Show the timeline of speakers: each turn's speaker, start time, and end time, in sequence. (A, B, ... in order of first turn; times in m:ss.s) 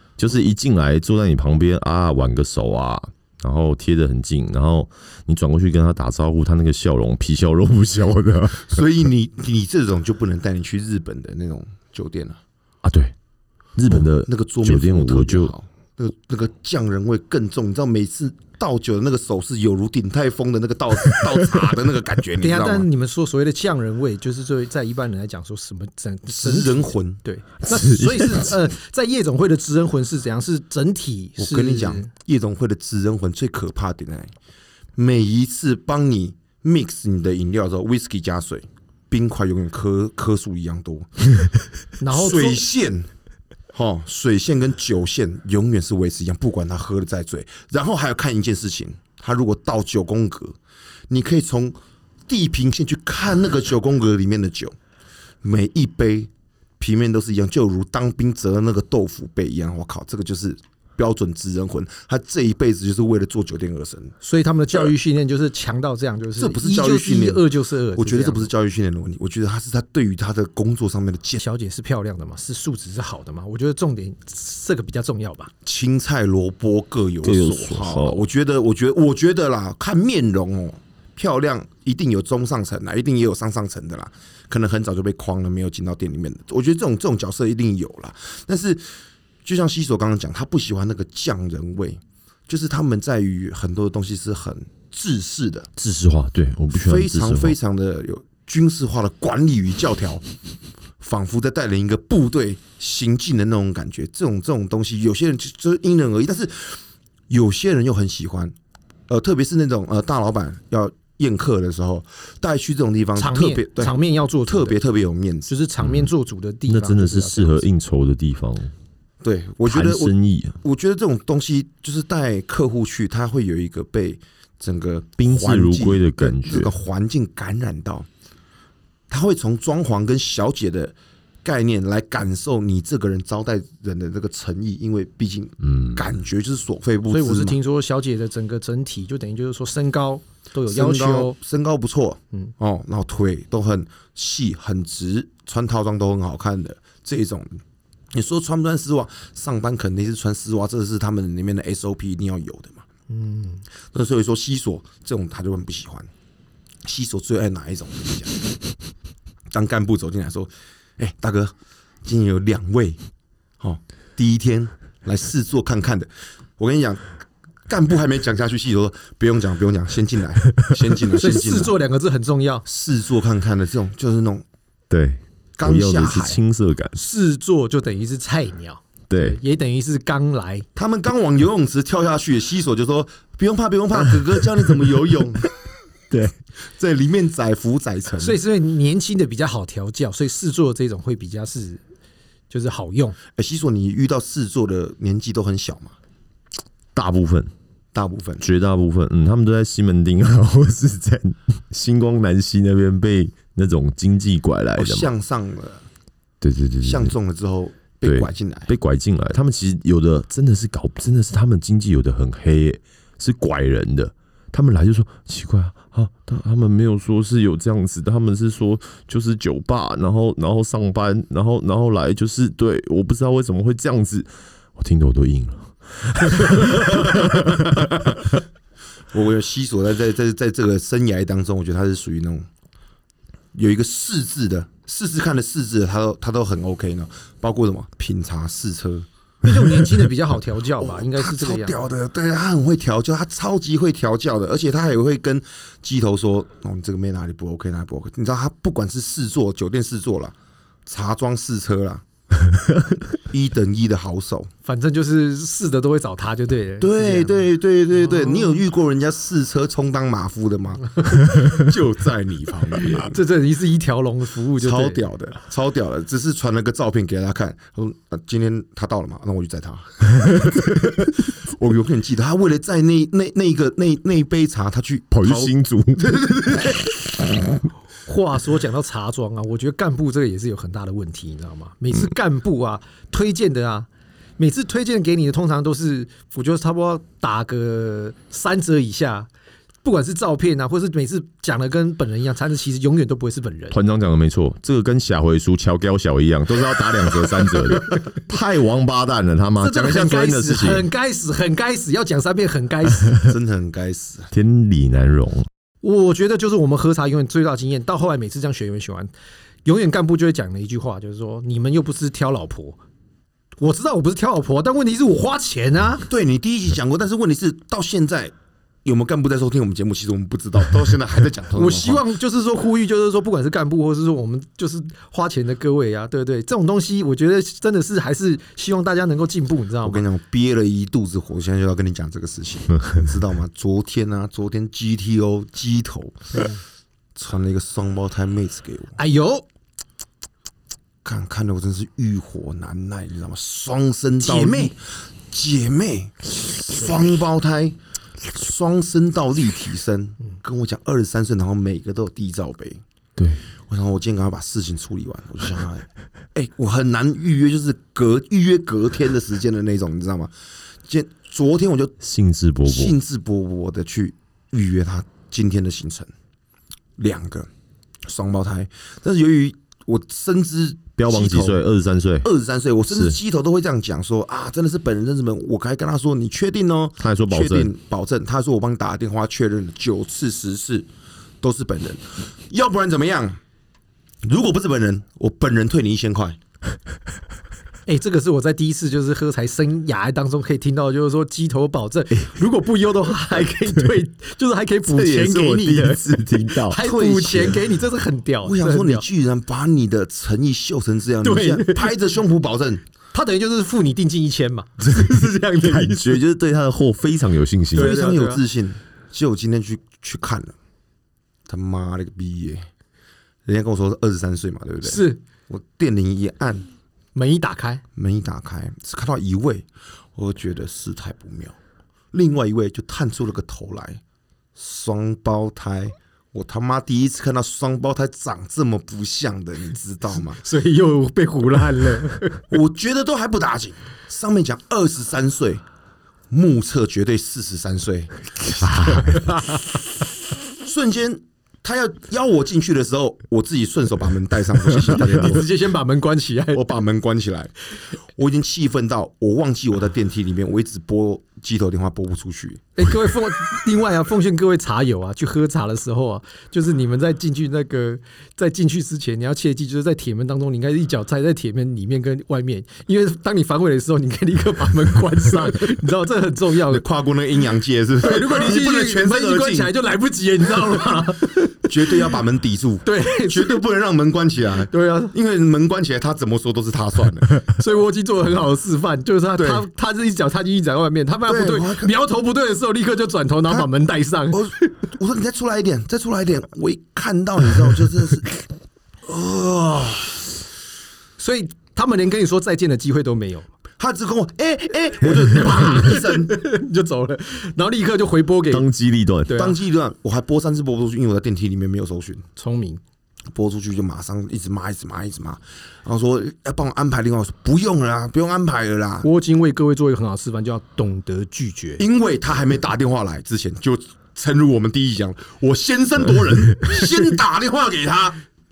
0:00.2-0:08.8 A
0:08.6-0:12.4 B
0:12.8-0:13.1 A
0:13.8-0:15.5 A
0:13.8-0:22.9 B
0:22.4-0:32.1 C
0:26.3-0:27.2 B
0:27.7-0:28.5 A
0:31.4-0:34.3 B
0:35.0-0:41.3 B
0:42.0-0:42.6 C
0:42.1-0:43.1 B
0:43.7-0:50.6 B
0:51.1-0:51.8 B
0:52.3-0:54.8 B
0:55.4-1:04.1 B
1:04.2-1:08.5 C
1:06.4-1:11.4 B
1:11.4-1:15.5 C
1:15.6-1:28.9 B
1:17.2-1:18.2 A
1:29.4-1:35.7 B
1:35.8-1:37.6 A
1:36.7-1:40.2 B
1:41.0-1:48.6 B
1:49.1-1:55.5 B
1:53.2-1:54.8 C
1:55.5-1:57.6 C
1:55.8-1:56.1 A
1:56.7-1:58.7 A
1:59.2-2:08.1 B
1:59.6-2:00.6 A
2:05.2-2:06.7 A
2:09.1-2:17.6 B
2:17.1-2:21.4 C
2:20.7-2:27.6 B
2:28.1-2:32.9 B
2:33.1-2:33.6 C
2:33.9-2:36.1 B
2:36.8-2:38.4 B
2:39.5-2:41.5 B
2:42.0-2:43.0 B
2:43.6-2:47.1 B
2:47.7-2:51.8 B
2:51.1-2:52.6 C
2:52.6-2:54.4 B
2:54.9-2:57.0 A
2:55.6-2:56.4 B
2:57.0-3:00.7 C
2:59.1-2:59.4 A
3:00.8-3:05.5 B
3:06.8-3:08.4 B
3:08.2-3:11.8 C
3:12.5-3:13.2 C
3:13.4-3:16.0 B
3:17.0-3:17.5 A
3:17.9-3:18.5 B
3:18.4-3:25.1 A
3:24.8-3:25.9 B
3:26.4-3:27.2 A
3:26.8-3:28.7 B
3:28.0-3:48.3 A
3:49.1-3:52.5 B
3:53.5-3:59.1 B
3:59.4-4:01.8 C
4:00.8-4:10.4 B
4:10.9-4:12.0 B
4:13.1-4:14.5 B
4:14.6-4:18.6 C
4:16.8-4:23.2 B
4:22.9-4:25.0 C
4:24.6-4:36.9 B
4:35.1-4:36.3 A
4:38.0-4:49.3 C
4:49.8-4:53.8 C
4:53.7-5:00.9 A
4:59.6-5:03.2 C
5:03.2-5:04.3 B
5:04.3-5:05.5 A
5:05.8-5:09.1 C
5:09.6-5:12.8 C
5:13.6-5:16.1 C
5:16.1-5:18.3 B
5:18.8-5:22.0 B
5:21.5-5:30.0 C
5:29.8-5:36.5 B
5:37.2-5:39.0 B
5:39.0-5:39.4 C
5:41.0-5:52.8 B
5:44.2-5:44.7 C
5:53.2-5:53.4 A
5:53.7-6:00.3 B
6:00.9-6:02.0 B
6:02.0-6:03.0 A
6:02.6-6:06.1 B
6:07.0-6:07.5 B
6:08.0-6:11.6 B
6:11.0-6:12.3 A
6:12.2-6:20.9 B
6:12.9-6:13.2 A
6:17.0-6:17.7 A
6:21.4-6:23.4 B
6:24.2-6:26.4 B
6:27.9-6:39.0 C
6:34.9-6:36.8 A
6:36.8-6:37.6 B
6:38.4-6:42.8 B
6:41.2-6:41.9 C
6:43.1-6:46.2 C
6:44.9-6:48.0 A
6:47.7-6:50.5 B
6:47.8-6:48.4 C
6:51.5-6:52.7 B
6:53.5-6:56.7 B
6:54.8-6:55.2 C
6:57.2-6:57.8 C
6:58.0-7:01.6 B
7:02.1-7:04.0 B
7:04.6-7:10.4 B
7:10.3-7:12.4 C
7:12.5-7:15.6 B
7:16.3-7:19.2 B
7:18.8-7:19.6 C
7:20.5-7:25.5 B
7:24.8-7:26.7 C
7:26.5-7:32.7 B
7:32.8-7:46.8 C
7:46.6-7:49.7 B
7:48.0-7:51.9 C
7:51.6-7:57.4 B
7:52.8-7:53.6 C
7:54.7-7:55.1 C
7:57.3-8:04.7 C
7:59.4-7:59.7 B
8:01.3-8:01.9 B
8:04.3-8:08.3 B
8:09.1-8:10.2 B
8:11.2-8:13.5 C
8:13.8-8:16.4 B
8:15.3-8:18.7 C
8:18.5-8:19.3 A
8:19.3-8:19.6 C
8:19.3-8:22.3 B
8:22.4-8:22.8 C
8:23.3-8:29.1 B
8:29.0-8:31.8 C
8:31.8-8:38.2 B